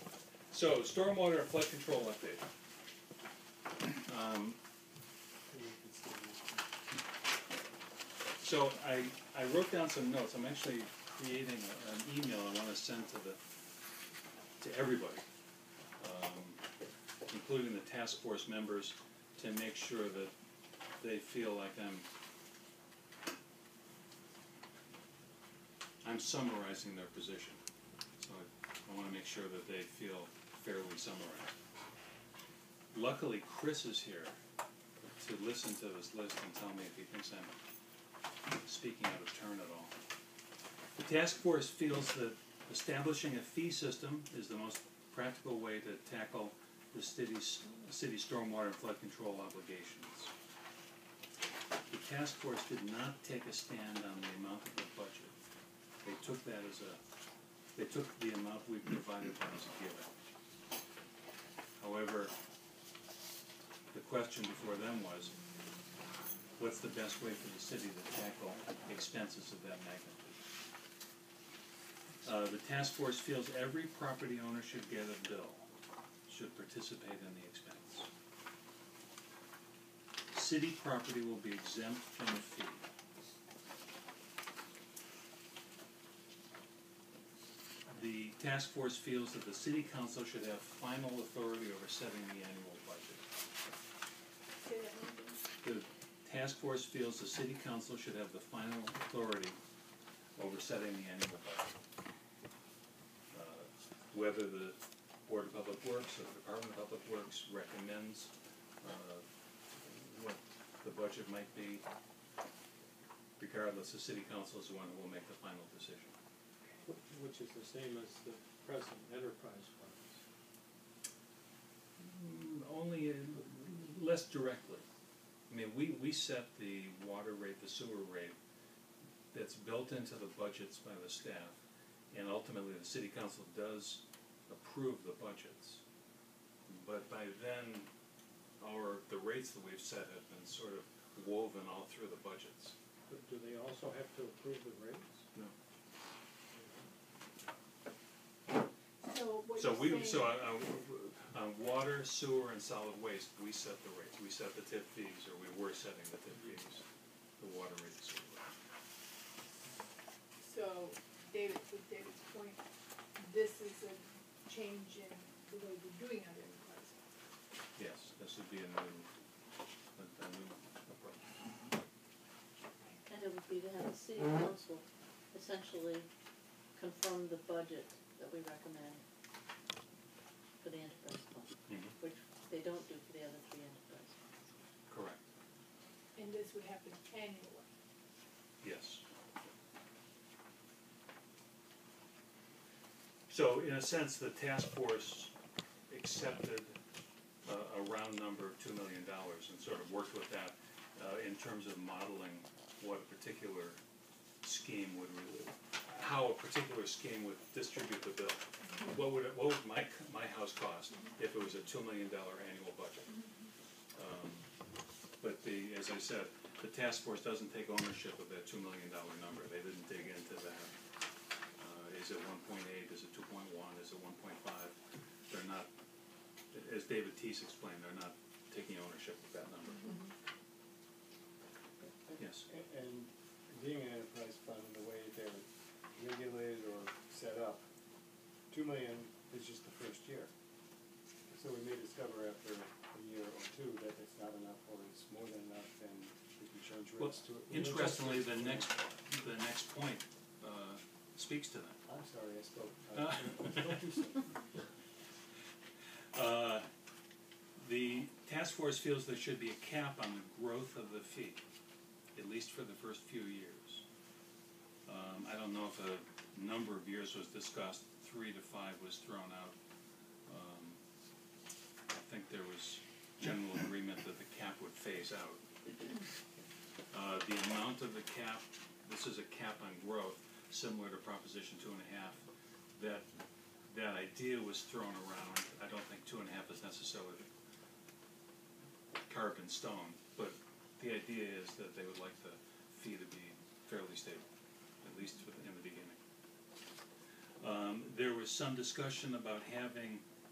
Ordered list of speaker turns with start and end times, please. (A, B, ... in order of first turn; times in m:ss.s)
0:00.5-0:02.4 A
0:04.0-0:04.6 A
0:05.5-0:06.6 B
0:08.4-0:13.4 A
0:14.6-0:15.2 A
0:16.0-0:16.6 A
0:17.3-0:20.3 A
0:21.0-0:22.1 A
0:26.0-0:27.6 A
0:28.2-0:31.6 A
0:32.9-0:34.4 A
0:35.2-0:37.5 A
0:38.6-0:39.9 A
0:41.0-0:50.3 A
0:51.9-0:55.3 A
0:56.0-0:57.0 A
0:57.7-1:00.1 A
1:01.8-1:02.3 A
1:03.9-1:05.3 A
1:06.6-1:10.4 A
1:12.2-1:15.7 A
1:16.2-1:18.1 A
1:20.3-1:22.8 A
1:27.9-1:33.2 A
1:34.6-1:35.4 C
1:35.6-1:39.6 A
1:40.4-1:41.7 A
1:43.3-1:49.2 A
1:49.8-1:51.8 A
1:53.4-1:56.1 A
1:56.8-2:00.2 D
2:02.0-2:04.8 A
2:05.5-2:08.4 A
2:09.3-2:11.6 A
2:12.1-2:15.8 A
2:16.7-2:17.9 A
2:18.6-2:22.7 A
2:23.1-2:25.2 D
2:26.6-2:26.8 D
2:29.0-2:30.5 C
2:29.5-2:36.8 A
2:37.4-2:38.5 A
2:40.4-2:42.6 C
2:43.2-2:47.1 C
2:47.8-2:49.1 A
2:49.9-2:51.3 A
2:53.0-2:56.1 E
2:56.7-2:59.0 E
3:00.6-3:04.6 E
3:01.7-3:01.9 A
3:04.9-3:05.2 A
3:06.2-3:07.7 C
3:08.6-3:09.0 A
3:13.3-3:15.3 A
3:15.9-3:16.8 A
3:17.4-3:23.8 A
3:24.4-3:33.1 A
3:33.9-3:34.5 A
3:35.2-3:40.7 A
3:41.6-3:45.7 A
3:46.5-3:50.0 A
3:52.0-3:57.6 B
3:52.2-3:52.5 A
3:58.5-4:00.3 B
4:01.3-4:08.7 B
4:07.0-4:11.8 A
4:11.8-4:14.4 B
4:12.9-4:13.8 A
4:16.1-4:16.7 A
4:17.6-4:21.4 A
4:22.1-4:23.8 A
4:24.8-4:29.5 A
4:30.2-4:30.8 A
4:31.9-4:35.5 A
4:36.9-4:43.1 A
4:43.7-4:47.3 A
4:49.1-4:54.3 A
4:54.8-4:56.0 A
4:57.4-5:00.0 A